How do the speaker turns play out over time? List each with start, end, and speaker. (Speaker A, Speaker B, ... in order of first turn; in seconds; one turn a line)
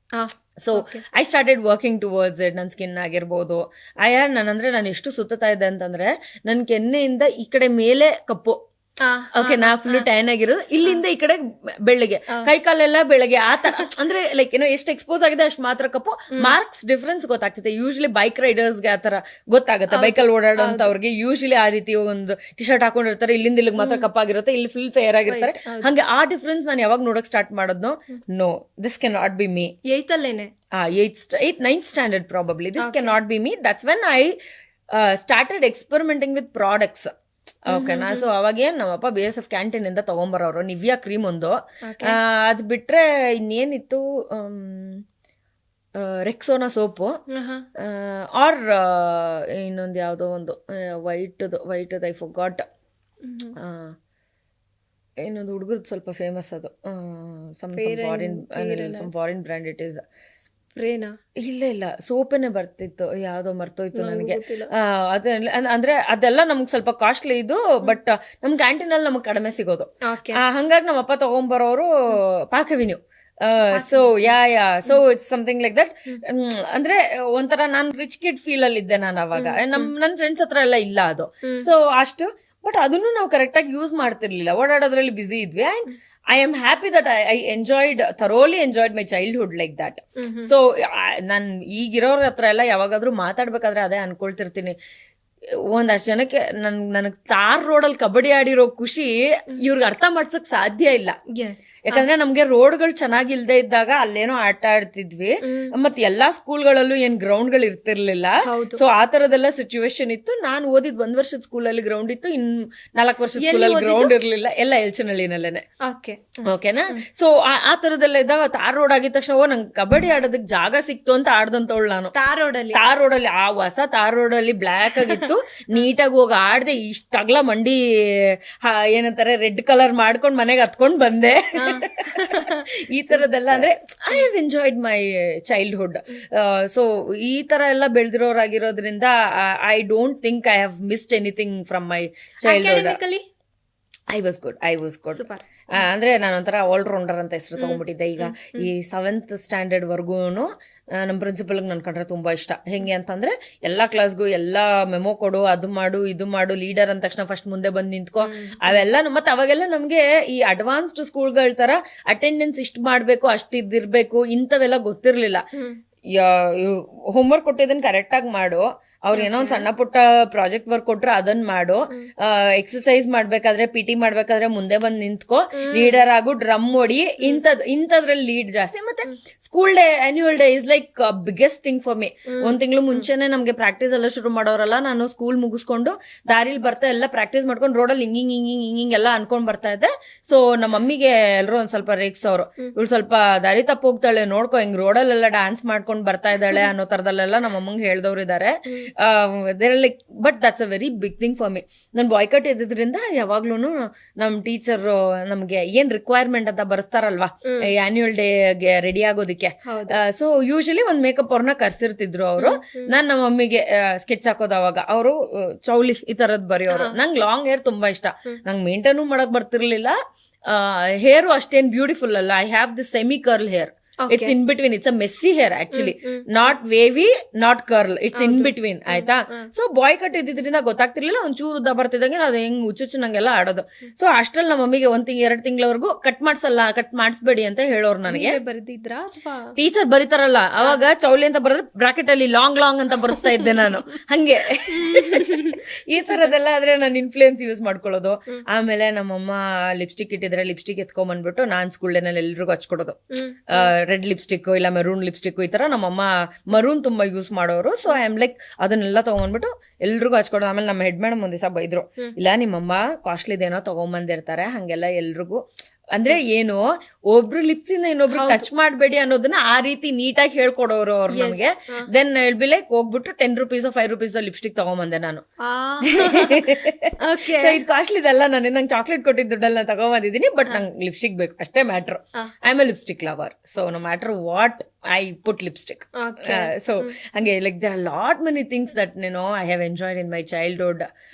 Speaker A: 0.1-1.0
Speaker B: 0.6-8.6
Speaker A: 9.0-10.1
Speaker B: 9.3-29.7
Speaker A: 13.6-13.9
Speaker A: 19.9-20.9
Speaker A: 23.8-24.1
Speaker A: 25.3-25.9
Speaker A: 29.9-30.5
Speaker B: 30.8-34.4
Speaker A: 32.8-33.2
Speaker B: 34.9-37.1
Speaker B: 37.7-45.0
Speaker A: 37.7-38.3
Speaker A: 41.9-42.2
Speaker B: 46.0-47.1
Speaker A: 47.3-47.7
Speaker B: 47.8-52.7
Speaker A: 53.2-53.5
Speaker B: 53.6-54.0
Speaker B: 55.2-60.0
Speaker A: 57.8-59.1
Speaker A: 60.7-61.2
Speaker B: 61.4-94.8
Speaker A: 63.9-64.7
Speaker A: 70.1-70.4
Speaker A: 73.7-74.3
Speaker A: 79.3-79.9
Speaker A: 81.4-81.7
Speaker A: 90.2-90.5
Speaker B: 95.7-101.2
Speaker A: 101.3-102.1
Speaker B: 101.9-115.6
Speaker A: 105.4-105.7
Speaker A: 108.4-108.8
Speaker A: 113.4-114.1
Speaker A: 115.8-117.0
Speaker B: 116.4-122.1
Speaker A: 122.1-122.8
Speaker B: 122.7-143.0
Speaker A: 124.9-125.9
Speaker A: 131.5-133.6
Speaker A: 142.4-143.2
Speaker B: 144.1-165.4
Speaker A: 145.1-145.4
Speaker A: 147.6-148.7
Speaker A: 158.2-158.9
Speaker B: 166.1-220.0
Speaker A: 169.1-169.7
Speaker A: 175.6-176.1
Speaker A: 182.3-183.1
Speaker A: 209.7-210.0
Speaker A: 212.4-212.9
Speaker A: 216.7-217.0
Speaker B: 220.5-238.4
Speaker A: 224.0-224.4
Speaker A: 225.7-226.3
Speaker A: 228.2-229.5
Speaker A: 238.1-239.5
Speaker B: 239.6-265.4
Speaker A: 244.7-245.6
Speaker A: 253.1-253.7
Speaker B: 265.9-275.2
Speaker A: 268.1-268.5
Speaker A: 271.1-271.9
Speaker A: 275.4-277.6
Speaker B: 275.8-290.9
Speaker A: 286.0-286.9